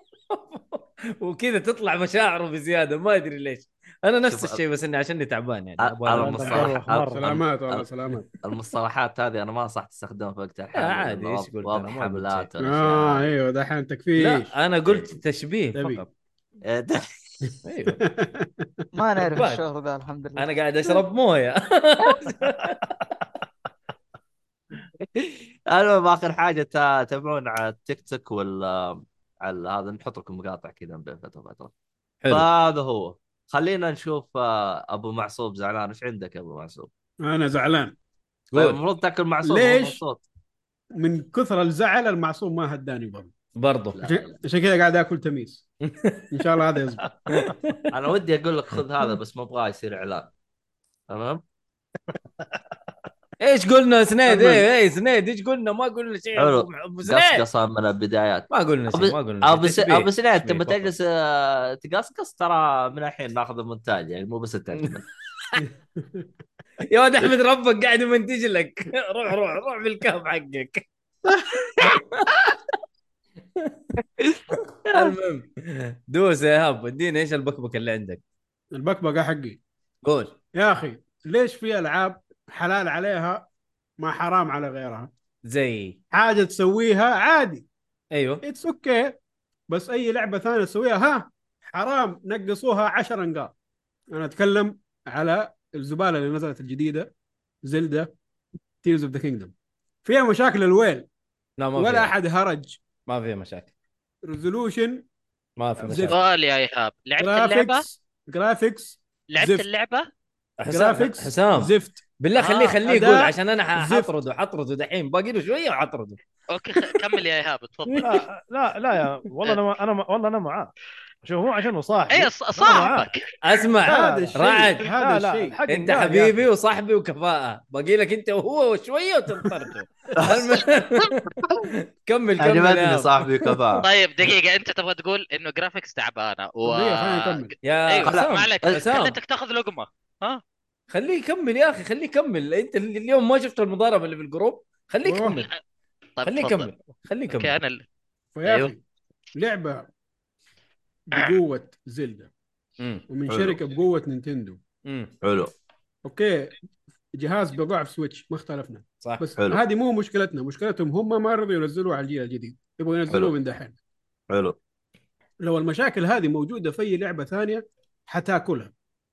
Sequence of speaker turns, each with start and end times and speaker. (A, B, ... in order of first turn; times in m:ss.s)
0:00.3-0:06.8 A
0:04.3-0:04.6 B
0:05.8-0:07.8 B
0:06.1-0:07.3 C
0:06.5-0:08.3 D
0:08.4-0:13.3 B
0:10.7-0:12.5 A
0:12.6-0:14.5 D
0:14.2-0:16.1 A
0:15.7-0:16.0 D
0:16.6-0:17.5 B
0:17.6-0:18.0 A
0:17.9-0:18.7 D
0:18.9-0:20.9 E
0:19.2-0:19.6 A
0:20.4-0:23.0 A
0:25.0-0:31.7 B
0:32.3-0:36.9 B
0:37.2-0:37.9 D
0:38.5-0:38.8 A
0:38.5-0:40.2 B
0:39.4-0:40.0 D
0:41.0-0:43.3 D
0:43.6-0:44.0 A
0:43.9-0:44.3 B
0:44.0-0:45.7 D
0:45.9-0:46.3 A
0:46.3-0:47.1 D
0:47.3-0:47.8 A
0:47.9-0:50.3 B
0:51.1-0:51.4 B
0:53.4-0:57.4 A
0:54.3-0:54.6 D
0:56.4-1:05.0 B
0:58.5-1:00.9 A
1:05.6-1:06.3 D
1:06.9-1:10.8 A
1:11.8-1:12.4 A
1:14.9-1:18.2 A
1:18.7-1:19.6 D
1:20.0-1:20.3 A
1:20.5-1:23.5 D
1:24.0-1:25.1 D
1:25.4-1:26.0 A
1:26.1-1:27.6 D
1:28.1-1:28.4 A
1:28.4-1:29.2 D
1:29.7-1:33.5 D
1:34.1-1:37.1 D
1:37.6-1:38.1 D
1:38.8-1:39.5 D
1:40.0-1:41.1 D
1:41.6-1:42.1 A
1:41.8-1:42.8 D
1:43.0-1:43.7 A
1:44.2-1:45.0 D
1:45.6-1:46.2 A
1:45.8-1:46.2 D
1:46.1-1:47.8 F
1:47.2-1:49.6 D
1:49.3-1:50.0 F
1:50.6-1:56.2 A
1:50.7-1:52.0 D
1:52.4-1:52.8 C
1:52.8-1:54.1 D
1:56.5-1:58.2 F
1:58.0-2:03.1 C
2:02.1-2:03.2 F
2:03.4-2:04.8 A
2:03.8-2:04.4 C
2:03.8-2:05.6 D
2:05.0-2:06.4 C
2:05.7-2:13.1 A
2:10.2-2:10.6 B
2:12.4-2:13.8 B
2:13.8-2:20.4 F
2:16.6-2:17.5 D
2:17.6-2:19.2 A
2:18.0-2:18.8 B
2:20.9-2:25.5 A
2:25.0-2:25.4 D
2:25.3-2:25.6 F
2:26.2-2:26.7 F
2:26.2-2:27.5 A
2:27.3-2:27.8 F
2:28.3-2:28.8 D
2:28.4-2:28.7 A
2:29.3-2:29.9 D
2:31.1-2:32.3 D
2:32.8-2:33.0 A
2:33.1-2:34.6 D
2:33.3-2:33.6 B
2:34.8-2:35.1 A
2:35.2-2:35.5 B
2:36.0-2:36.5 D
2:37.2-2:43.8 D
2:39.4-2:39.6 B
2:43.1-2:43.3 B
2:44.3-2:44.5 B
2:45.4-2:48.7 D